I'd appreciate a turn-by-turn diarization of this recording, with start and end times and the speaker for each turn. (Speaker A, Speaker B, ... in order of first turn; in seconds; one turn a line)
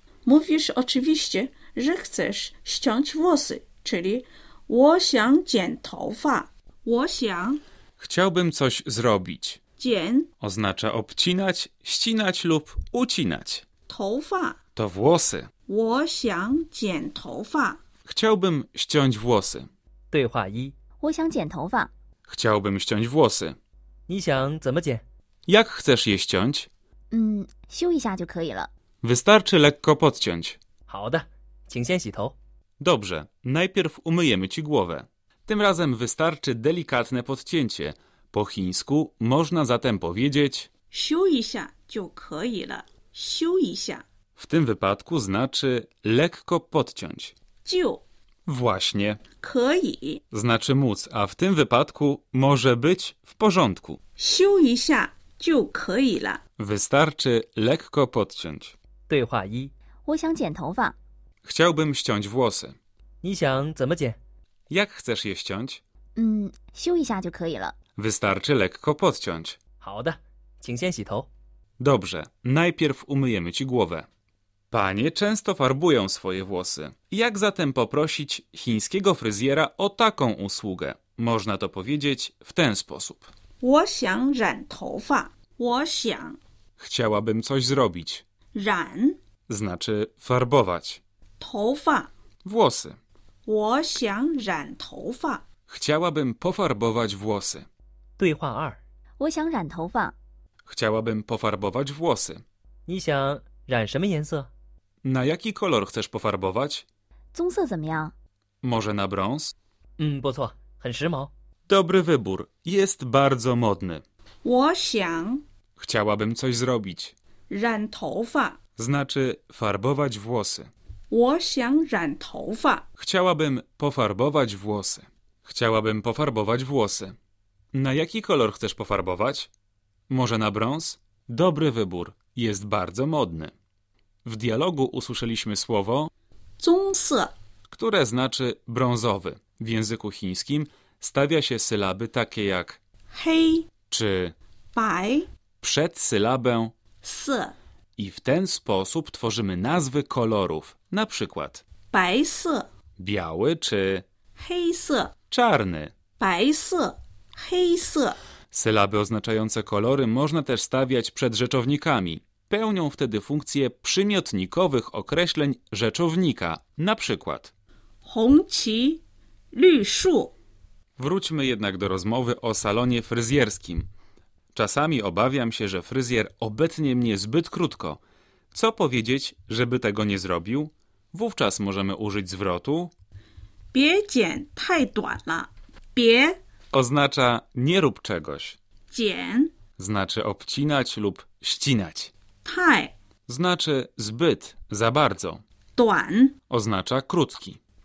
Speaker A: 0.2-7.6
Speaker B: 8.0-9.6
Speaker A: 9.8-10.3
Speaker B: 10.4-13.6
Speaker A: 13.9-14.6
Speaker B: 14.8-15.5
Speaker A: 15.7-17.8
Speaker B: 18.1-19.7
Speaker C: 20.1-20.7
Speaker D: 21.0-21.9
Speaker B: 22.3-23.6
Speaker C: 24.1-25.0
Speaker B: 25.5-26.7
Speaker D: 27.1-28.7
Speaker B: 29.0-30.6
Speaker C: 30.9-32.4
Speaker B: 32.8-40.7
Speaker A: 40.9-44.0
Speaker B: 44.4-47.3
Speaker A: 47.6-48.0
Speaker B: 48.5-49.2
Speaker A: 49.4-50.2
Speaker B: 50.3-54.0
Speaker A: 54.2-56.4
Speaker B: 56.6-58.7
Speaker C: 59.1-59.7
Speaker D: 60.0-61.0
Speaker B: 61.4-62.8
Speaker C: 63.2-64.2
Speaker B: 64.7-65.8
Speaker D: 66.2-67.7
Speaker B: 68.0-69.6
Speaker C: 69.8-71.3
Speaker B: 71.8-74.1
Speaker B: 74.7-83.3
Speaker A: 83.6-86.4
Speaker B: 86.8-88.2
Speaker A: 88.5-89.2
Speaker B: 89.5-91.0
Speaker A: 91.4-92.1
Speaker B: 92.4-93.0
Speaker A: 93.5-95.4
Speaker B: 95.7-97.7
Speaker C: 98.2-98.8
Speaker D: 99.2-100.2
Speaker B: 100.7-102.4
Speaker C: 102.9-104.5
Speaker B: 105.0-106.8
Speaker D: 107.3-108.1
Speaker B: 108.6-109.5
Speaker C: 110.0-111.3
Speaker B: 111.7-114.0
Speaker A: 114.4-115.4
Speaker B: 115.8-117.1
Speaker A: 117.5-118.6
Speaker B: 118.8-120.7
Speaker A: 121.1-122.9
Speaker B: 123.0-127.1
Speaker B: 127.7-129.5
Speaker B: 130.1-133.5
Speaker B: 134.2-136.1
Speaker A: 136.6-137.3
Speaker B: 137.7-142.8
Speaker A: 143.1-143.7
Speaker B: 143.9-144.3
Speaker A: 144.7-145.3
Speaker B: 145.6-146.7
Speaker A: 147.0-147.5
Speaker B: 148.0-151.6
Speaker A: 151.9-152.7
Speaker B: 153.0-154.0
Speaker A: 154.4-155.1
Speaker B: 155.3-155.9
Speaker A: 156.2-158.2
Speaker B: 158.5-167.5
Speaker A: 168.0-169.0
Speaker A: 169.5-170.3
Speaker B: 171.0-173.9
Speaker B: 174.5-178.0
Speaker B: 178.5-182.9
Speaker A: 183.7-186.3
Speaker B: 186.7-188.6
Speaker A: 188.9-189.5
Speaker B: 189.8-192.1
Speaker A: 192.4-192.9
Speaker B: 193.3-195.4
Speaker A: 195.8-196.4
Speaker B: 196.5-197.6